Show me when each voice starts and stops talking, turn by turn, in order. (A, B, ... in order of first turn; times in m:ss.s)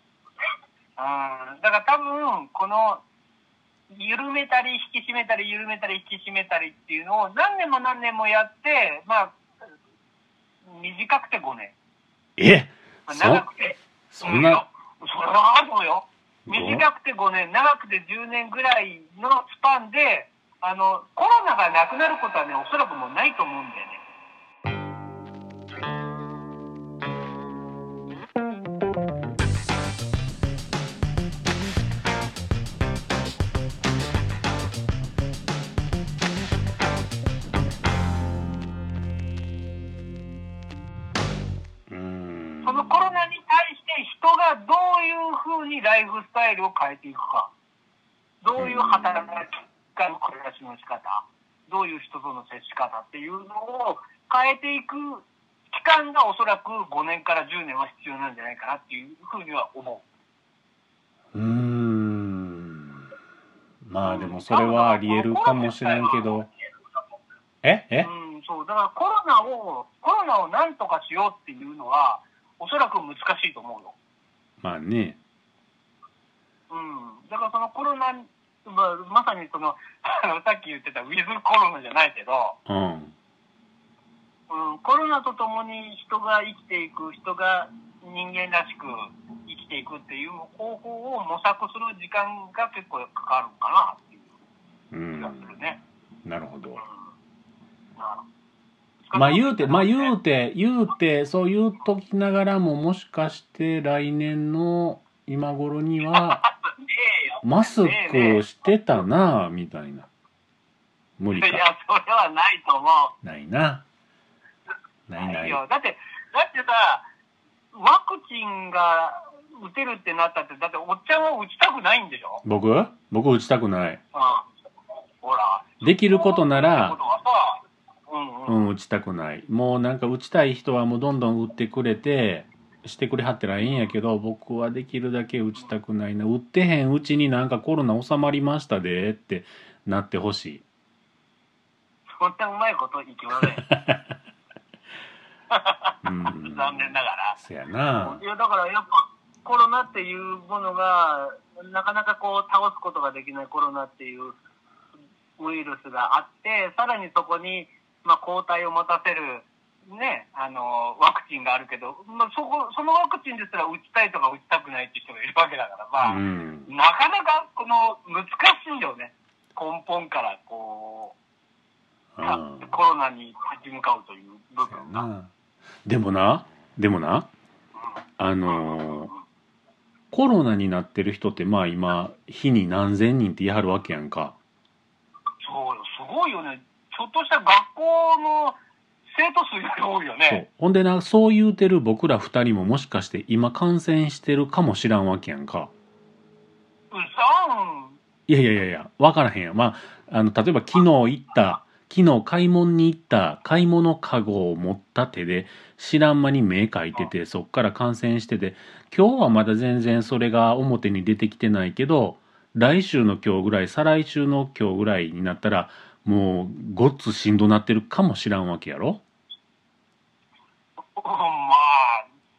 0:01.0-0:03.0 A
0:03.9-0:09.4 A
0:10.7-0:11.7 A
0:12.4-0:13.5 B
0:13.1-0:24.0 A
0:14.1-0:14.6 B
0:16.5-0:16.8 B
0:41.9-0:43.1 B
0:42.6-0:47.5 A
0:48.4-1:00.0 A
0:48.6-0:49.4 B
1:01.3-1:03.1 B
1:03.8-1:06.5 B
1:04.0-1:06.3 A
1:07.6-1:08.1 B
1:08.0-1:14.0 A
1:14.6-1:15.2 B
1:16.7-1:22.6 A
1:22.7-1:23.2 B
1:24.5-1:34.3 A
1:34.9-1:35.6 B
1:35.2-1:35.8 A
1:36.2-1:36.8 B
1:38.0-1:38.2 A
1:39.1-1:40.1 A
1:39.1-1:46.4 B
1:46.1-1:48.4 A
1:47.4-1:50.1 B
1:51.2-1:51.6 B
1:51.3-1:53.1 A
1:53.2-1:53.8 B
1:55.1-1:55.6 B
1:55.2-1:57.1 A
1:57.7-2:02.4 A
2:02.4-2:04.0 B
2:04.1-2:04.4 A
2:05.2-2:08.7 A
2:05.8-2:07.0 B
2:08.5-2:20.6 B
2:22.2-2:23.7 A
2:23.8-2:24.1 B
2:25.5-2:27.4 A
2:26.0-2:28.2 B
2:28.0-2:34.4 A
2:35.4-2:51.2 A
2:46.0-2:46.7 B
2:52.2-2:52.8 B
2:52.2-2:55.1 A
2:54.7-2:55.3 B
2:55.9-2:57.3 B
2:58.2-2:59.1 B
2:58.5-2:59.2 A
3:00.1-3:04.4 B
3:05.4-3:08.6 A
3:09.1-3:10.4 A
3:10.3-3:15.7 B
3:16.9-3:18.0 A
3:18.3-3:39.0 B
3:41.0-3:42.1 A